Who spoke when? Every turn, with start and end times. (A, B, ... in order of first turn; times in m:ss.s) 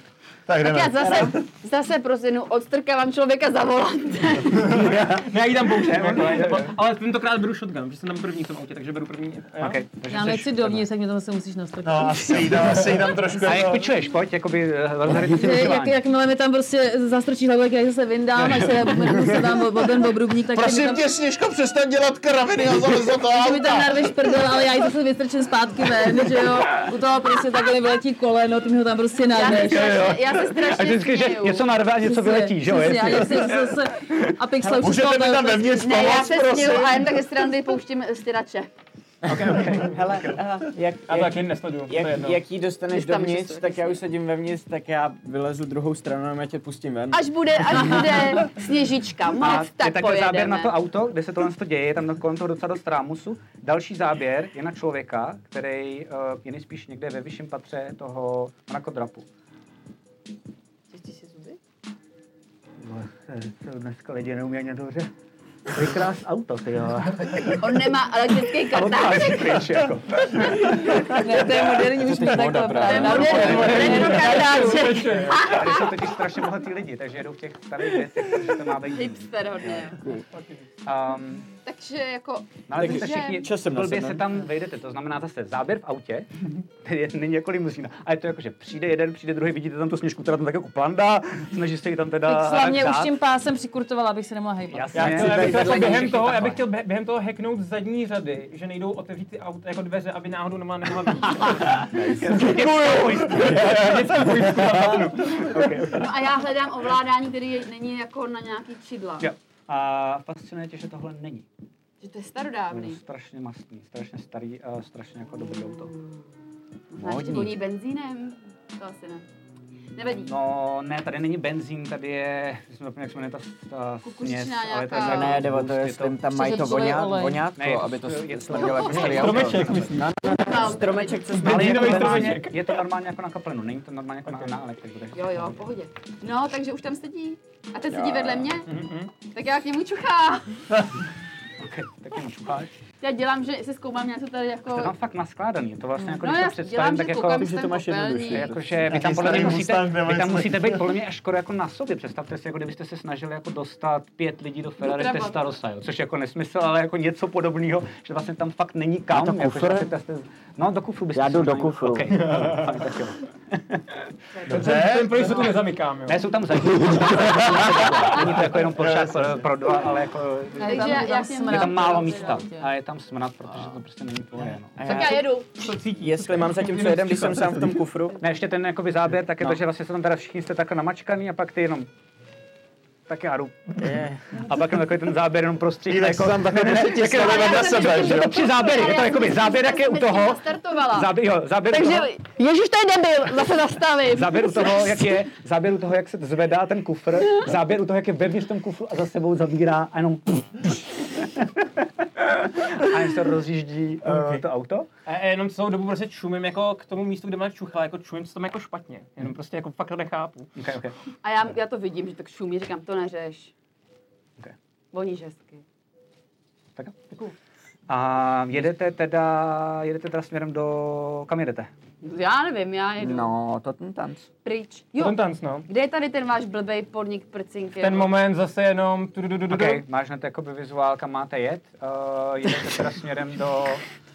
0:00.5-0:01.4 A
0:00.6-0:04.8 B
0:04.7-0:06.7 C
0:04.7-0:09.8 D
0:09.6-0:10.8 C
0:10.1-0:13.4 E
0:11.8-0:13.9 A
0:13.4-0:16.0 C
0:15.1-0:21.0 E
0:20.5-0:24.1 A
0:23.2-0:30.1 E
0:29.3-0:31.7 B
0:29.7-0:33.5 C
0:32.0-0:35.7 E
0:34.6-0:34.9 F
0:34.7-0:37.2 A
0:35.6-0:38.7 B
0:39.2-0:39.6 D
0:39.3-0:40.4 C
0:39.6-0:48.1 F
0:41.0-0:42.4 D
0:42.9-0:44.0 B
0:47.1-0:50.7 B
0:49.4-0:59.2 C
1:00.9-1:01.6 E
1:02.8-1:05.1 C
1:05.7-1:07.8 C
1:07.6-1:09.6 B
1:08.6-1:10.8 C
1:11.1-1:13.8 E
1:12.0-1:14.2 F
1:12.8-1:16.1 B
1:13.1-1:14.4 C
1:13.4-1:15.6 D
1:15.3-1:19.3 C
1:18.9-1:20.0 B
1:19.6-1:20.2 F
1:20.8-1:21.5 C
1:21.6-1:23.5 B
1:22.7-1:26.3 C
1:22.7-1:24.2 F
1:26.8-1:33.1 C
1:32.2-1:35.6 E
1:34.7-1:36.6 C
1:34.9-1:45.4 D
1:41.8-1:46.1 C
1:45.8-1:49.3 B
1:49.2-1:51.4 C
1:52.0-1:53.0 B
1:52.7-1:55.9 C
1:56.9-1:59.2 B
1:57.0-1:57.5 F
1:57.0-1:57.5 C
1:59.9-2:00.3 B
2:00.2-2:06.2 C
2:04.0-2:05.4 B
2:05.0-2:12.4 F
2:06.3-2:07.4 E
2:07.5-2:09.9 C
2:08.5-2:09.3 B
2:09.0-2:10.2 D
2:10.3-2:11.2 B
2:11.3-2:12.6 D
2:11.4-2:15.6 C
2:15.1-2:18.7 B
2:17.9-2:18.5 F
2:18.6-2:19.1 D
2:19.3-2:20.6 B
2:21.6-2:22.7 C
2:23.0-2:24.9 B
2:24.7-2:27.5 C
2:26.0-2:29.5 B
2:27.4-2:28.8 F
2:28.3-2:43.8 C
2:28.8-2:30.9 A
2:34.8-2:35.4 B
2:39.1-2:39.9 F
2:41.1-2:42.5 F
2:44.4-2:44.7 B
2:44.5-2:45.4 A
2:44.5-2:46.2 D
2:46.1-2:54.8 C
2:48.6-2:49.4 A
2:50.6-2:52.4 B
2:50.6-2:52.6 E
2:54.8-2:58.2 F
2:54.8-2:55.5 B
2:55.6-2:57.7 D
2:58.2-3:01.9 C
3:03.1-3:12.1 C
3:03.8-3:04.3 F
3:05.9-3:08.5 A
3:07.0-3:15.0 B
3:14.1-3:24.9 C
3:24.0-3:24.4 D
3:25.0-3:30.5 D
3:30.6-3:30.9 C
3:31.2-3:33.5 B
3:34.9-3:35.6 B
3:37.9-3:41.7 C
3:42.0-3:43.3 B
3:43.0-3:44.3 F
3:44.4-3:48.1 B
3:45.0-3:45.7 D
3:47.8-3:49.8 D
3:49.5-3:53.8 C